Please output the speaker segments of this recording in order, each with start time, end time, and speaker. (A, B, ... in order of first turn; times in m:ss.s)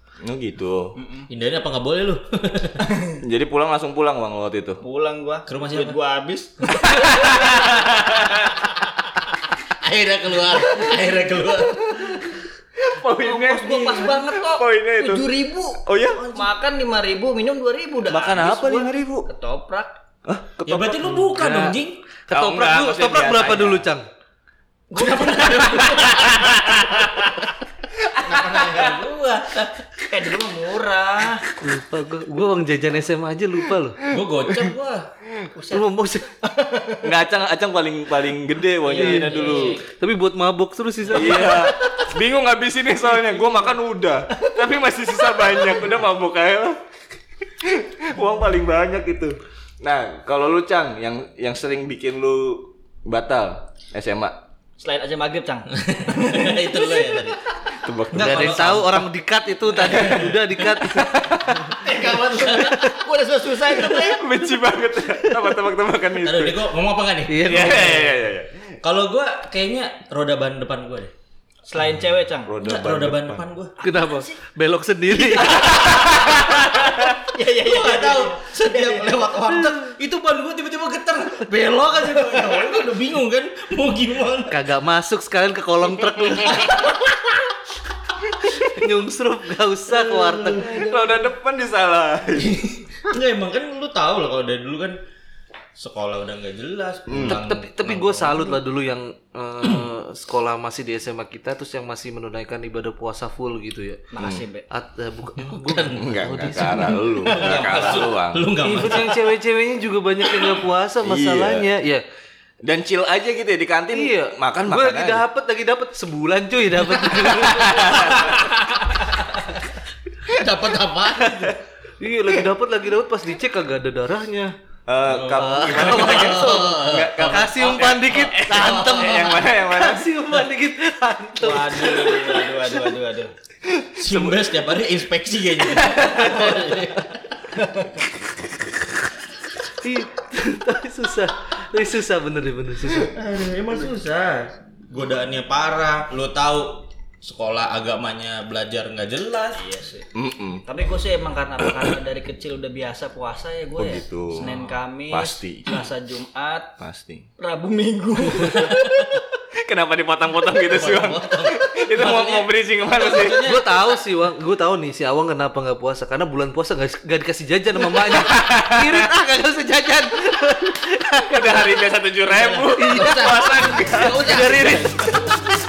0:00.2-0:00.9 A
0:00.9-0:01.3 B
0:01.3-0:02.9 C
0:02.8-0:03.2 B
0:03.2-0:04.8 A
0:04.8-0:09.1 B
0:05.5-0:06.0 C
0:06.6-0:07.4 C
0:07.3-0:08.5 A
0:09.8-0:12.2 C
0:12.8-0:16.3 A
0:13.2-0:19.9 B
0:16.2-0:16.4 C
0:18.1-0:19.3 A
0:20.2-0:21.2 A
0:20.6-0:22.0 C
0:21.2-0:24.0 D
0:22.3-0:23.9 A
0:24.9-0:27.2 B
0:24.9-0:26.4 C
0:26.0-0:27.3 A
0:28.1-0:29.0 A
0:28.2-0:29.8 C
0:30.1-0:31.4 B
0:31.5-0:34.0 D
0:34.1-0:35.1 C
0:35.5-0:37.0 B
0:35.7-0:36.3 D
0:37.0-0:39.8 A
0:38.8-0:39.8 B
0:39.0-0:39.2 D
0:39.0-0:39.8 C
0:39.8-0:41.7 D
0:41.1-0:46.8 A
0:41.1-0:42.1 B
0:43.2-0:43.7 B
0:45.3-0:45.8 B
0:47.6-0:54.4 A
0:54.8-0:57.3 B
0:55.7-0:57.4 C
0:57.8-0:58.8 A
0:58.1-0:59.0 C
0:58.2-1:03.0 D
0:59.7-1:01.1 C
1:01.7-1:02.7 C
1:01.8-1:04.2 B
1:03.7-1:06.7 A
1:06.2-1:08.1 C
1:07.3-1:08.1 D
1:07.4-1:08.7 A
1:08.8-1:11.1 C
1:11.6-1:12.5 B
1:12.4-1:13.4 A
1:12.6-1:13.7 C
1:13.8-1:14.4 B
1:13.8-1:15.9 D
1:15.1-1:19.5 B
1:15.7-1:16.3 C
1:15.8-1:17.1 A
1:17.5-1:24.6 C
1:22.0-1:22.8 B
1:24.5-1:26.9 D
1:28.6-1:30.7 D
1:29.9-1:30.9 C
1:30.6-1:31.0 B
1:30.6-1:32.6 A
1:32.4-1:35.0 C
1:35.8-1:38.6 C
1:37.1-1:37.4 A
1:37.2-1:44.1 D
1:44.1-1:44.7 B
1:44.2-1:44.4 A
1:44.7-1:47.3 D
1:45.4-1:49.2 C
1:46.0-1:48.4 A
1:47.3-1:48.0 B
1:48.6-1:52.0 D
1:51.0-1:51.7 A
1:52.6-1:55.2 A
1:53.9-1:58.3 D
1:56.8-1:58.4 C
1:57.4-1:58.6 A
1:58.4-1:58.8 B
2:00.3-2:01.6 C
2:02.0-2:04.5 D
2:04.9-2:10.1 A
2:05.0-2:09.4 C
2:05.4-2:12.4 D
2:11.4-2:13.3 B
2:13.7-2:14.5 A
2:14.0-2:17.2 C
2:15.8-2:16.2 A
2:16.1-2:16.7 D
2:17.6-2:18.0 B
2:19.7-2:23.2 D
2:22.9-2:29.6 C
2:29.5-2:30.1 B
2:30.1-2:30.6 A
2:30.6-2:36.7 B
2:31.6-2:31.9 A
2:33.8-2:34.5 A
2:34.4-2:34.8 C
2:35.1-2:35.7 A
2:36.8-2:37.2 A
2:37.4-2:39.2 B
2:38.2-2:39.2 C
2:39.6-2:43.5 A
2:40.6-2:43.9 C
2:43.2-2:51.7 D
2:47.9-2:49.1 A
2:51.2-2:54.3 A
2:52.2-2:55.3 C
2:52.7-2:55.4 D